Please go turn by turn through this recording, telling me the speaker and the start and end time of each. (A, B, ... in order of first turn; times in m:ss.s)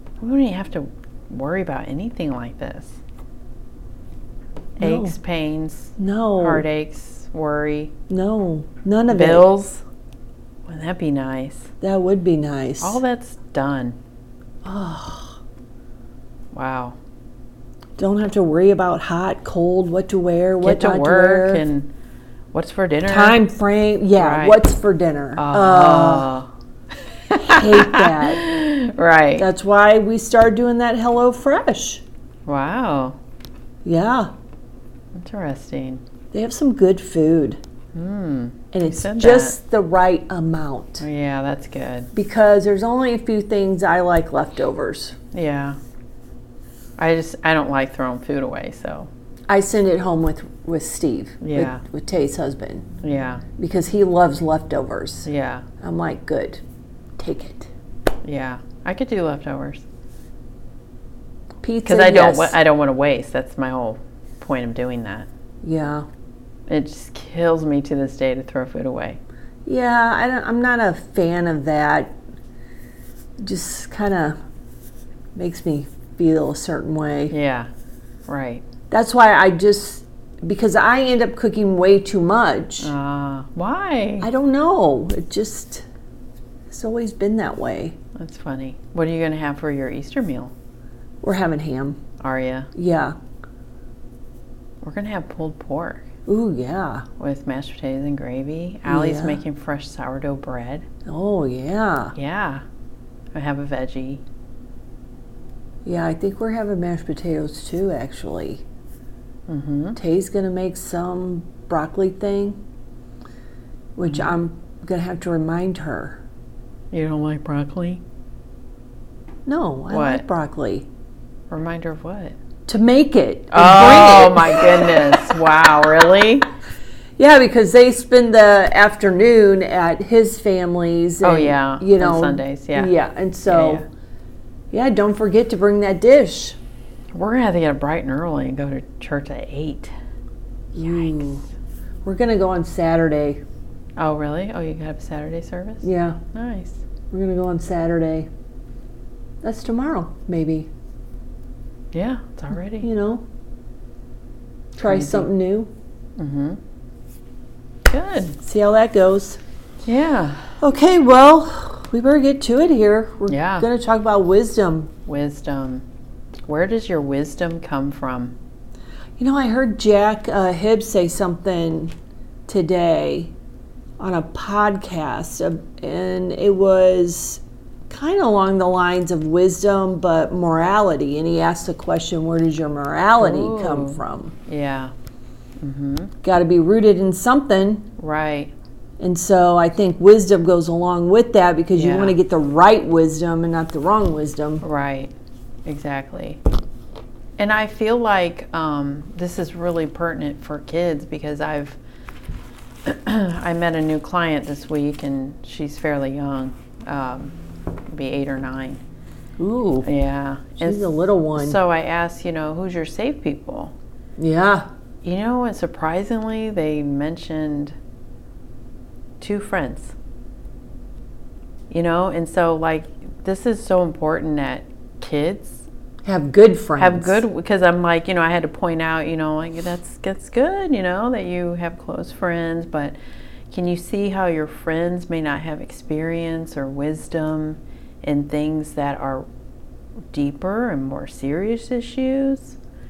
0:00.2-0:03.0 A
0:04.8-0:07.9 A
0:04.8-0:05.2 B
0:06.0-0:06.7 B
0:08.1-0:09.5 B
0:09.1-0:09.8 A
0:10.7-0:11.7 A
0:11.8-0:13.0 B
0:12.8-0:14.0 A
0:14.6-0:15.4 B
0:16.5-0:17.0 A
0:18.0-0:21.6 B
0:20.6-0:21.9 A
0:22.5-0:23.4 A
0:23.1-0:26.3 B
0:24.2-0:24.6 A
0:25.4-0:26.5 A
0:27.3-0:29.5 A
0:27.4-0:28.4 B
0:29.4-0:32.0 B
0:32.5-0:33.2 A
0:33.8-0:34.3 B
0:35.2-0:36.0 A
0:36.3-0:37.6 B
0:37.9-0:39.6 A
0:38.7-0:41.0 B
0:41.0-0:42.1 A
0:42.1-0:45.2 B
0:45.3-0:45.8 A
0:47.0-0:49.1 A
0:49.5-0:52.9 B
0:51.4-0:51.8 A
0:53.0-0:53.4 A
0:53.6-0:55.3 B
0:55.2-0:55.7 A
0:55.8-0:56.6 B
0:57.2-0:57.7 B
0:58.2-0:59.8 A
1:01.6-1:02.6 B
1:01.8-1:05.3 A
1:05.6-1:06.1 B
1:06.7-1:09.2 A
1:09.7-1:12.2 B
1:13.4-1:14.4 B
1:15.4-1:17.3 B
1:17.3-1:17.7 A
1:18.3-1:18.7 A
1:18.9-1:22.9 B
1:22.8-1:24.3 A
1:24.2-1:25.9 B
1:26.7-1:28.0 B
1:28.2-1:30.5 A
1:31.2-1:32.0 B
1:32.2-1:32.7 A
1:32.7-1:33.2 B
1:34.8-1:36.1 A
1:36.3-1:37.0 B
1:37.2-1:40.9 A
1:38.9-1:39.4 B
1:41.0-1:42.1 B
1:42.2-1:42.6 A
1:43.3-1:44.2 A
1:45.8-1:48.6 B
1:49.5-1:50.0 A
1:50.0-1:52.6 B
1:54.0-1:56.2 B
1:54.1-1:54.4 A
1:56.9-1:58.0 A
1:59.5-2:00.9 B
1:59.9-2:00.2 A
2:01.5-2:02.4 A
2:02.7-2:05.0 B
2:03.5-2:06.5 A
2:07.2-2:13.8 B
2:11.2-2:12.9 A
2:13.5-2:13.8 A
2:14.7-2:16.6 B
2:17.1-2:19.9 A
2:20.7-2:21.4 B
2:20.8-2:21.2 A
2:22.0-2:23.4 B
2:24.0-2:26.8 A
2:25.8-2:26.2 B
2:27.1-2:28.3 B
2:29.4-2:30.7 B
2:31.9-2:32.9 A
2:32.8-2:33.2 B
2:34.8-2:35.7 B
2:34.8-2:35.3 A
2:36.2-2:36.6 A
2:37.9-2:38.4 A
2:38.4-2:39.4 B
2:39.8-2:40.5 A
2:40.6-2:44.9 B
2:43.3-2:43.7 A
2:45.1-2:45.8 A
2:46.5-2:48.4 A
2:49.2-2:51.9 B
2:52.5-2:53.3 B
2:54.0-3:04.3 B
3:03.2-3:04.9 A
3:05.6-3:06.1 A
3:06.2-3:07.9 B
3:08.0-3:08.5 A
3:09.0-3:14.6 B
3:11.7-3:12.2 A
3:14.6-3:15.1 A
3:15.7-3:16.4 A
3:17.4-3:21.8 A
3:22.8-3:27.3 A
3:27.9-3:28.8 A
3:29.4-3:29.9 B
3:29.8-3:33.8 A
3:30.6-3:31.6 B
3:34.2-3:34.7 B
3:35.0-3:37.8 A
3:39.2-3:40.0 A
3:41.7-3:45.7 A
3:46.0-3:47.2 B
3:46.8-3:53.0 A
3:53.5-3:59.3 A
4:00.1-4:02.6 A